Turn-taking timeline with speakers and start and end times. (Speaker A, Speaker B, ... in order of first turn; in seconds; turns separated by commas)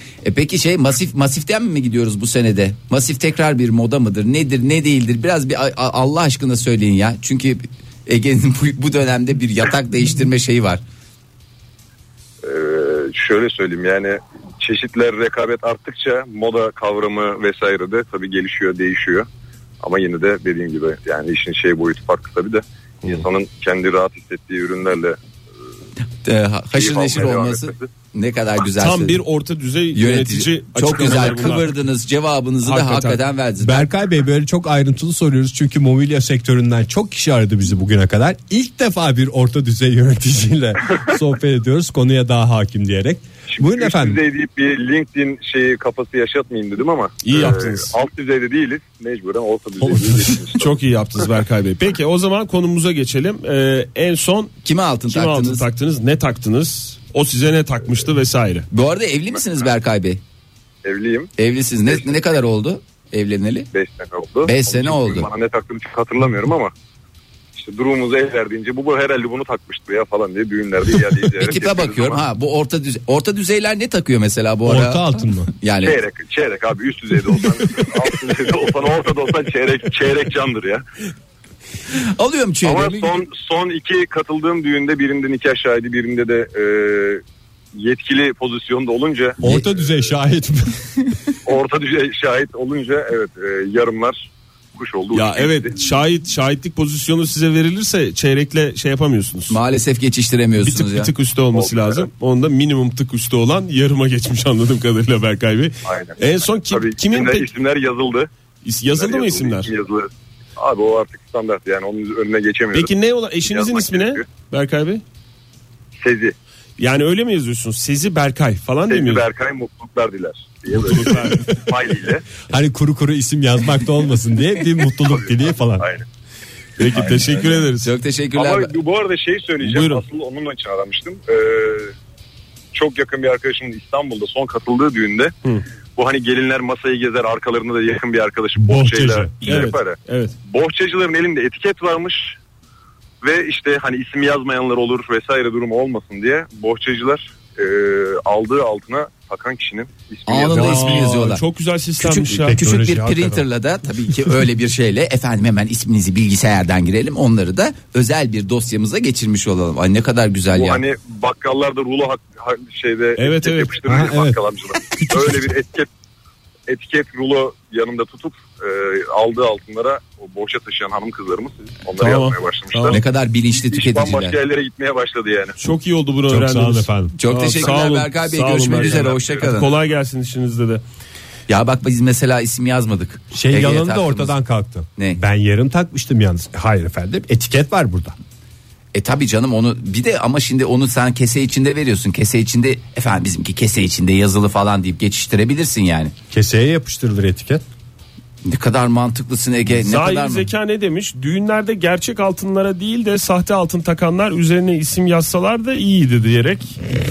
Speaker A: 0.2-10.8, Speaker B: 12.4-19.3, Speaker B: 19.8-25.2, Speaker A: 26.2-29.2, Speaker B: 26.7-27.9, Speaker C: 28.8-31.8, Speaker A: 29.9-33.9, Speaker C: 32.6-33.2, Speaker D: 33.6-44.2, Speaker B: 43.5-50.7, Speaker C: 47.2-47.9, Speaker D: 49.8-50.4, Speaker C: 50.6-54.5, Speaker A: 54.6-55.6, Speaker C: 55.1-58.7, Speaker A: 58.7-60.2, Speaker B: 59.3-59.7, Speaker B: 60.8-61.3, Speaker A: 61.4-63.7, Speaker B: 61.9-62.1, Speaker B: 63.7-66.7, Speaker A: 64.4-65.3, Speaker B: 67.5-72.2, Speaker A: 71.4-76.0, Speaker D: 74.7-75.5, Speaker B: 75.8-80.8, Speaker A: 81.9-83.1, Speaker B: 82.6-87.2, Speaker B: 87.8-89.4, Speaker D: 89.4-91.0, Speaker B: 91.5-95.8, Speaker C: 95.1-99.6, Speaker A: 99.5-101.1, Speaker C: 100.6-107.5, Speaker B: 101.5-102.1, Speaker B: 105.9-106.2, Speaker B: 106.7-108.3, Speaker C: 108.6-109.7, Speaker B: 109.0-114.3, Speaker C: 112.7-115.0, Speaker B: 116.0-116.3, Speaker C: 116.8-119.3, Speaker B: 118.9-122.2, Speaker C: 120.7-121.7, Speaker D: 122.5-125.9, Speaker B: 125.1-126.0, Speaker C: 126.8-127.9, Speaker B: 126.9-127.6, Speaker A: 127.8-128.7, Speaker B: 128.3-131.9, Speaker C: 129.6-130.0, Speaker B: 132.7-135.3, Speaker B: 136.0-142.4, Speaker D: 138.6-139.3, Speaker C: 139.4-140.3, Speaker B: 143.2-151.0, Speaker A: 150.3-151.4, Speaker C: 150.5-152.6, Speaker A: 152.0-160.8, Speaker D: 152.4-153.4, Speaker B: 160.5-165.9, Speaker C: 163.2-163.7, Speaker D: 163.9-165.4, Speaker B: 166.7-175.6, Speaker C: 172.0-173.0, Speaker A: 172.9-174.4, Speaker C: 175.6-180.8, Speaker D: 176.3-177.1, Speaker A: 177.2-179.7, Speaker A: 181.5-184.3, Speaker D: 183.3-188.2, Speaker A: 188.9-196.1, Speaker D: 196.3-197.6, Speaker A: 198.4-200.5, Speaker C: 199.7-206.8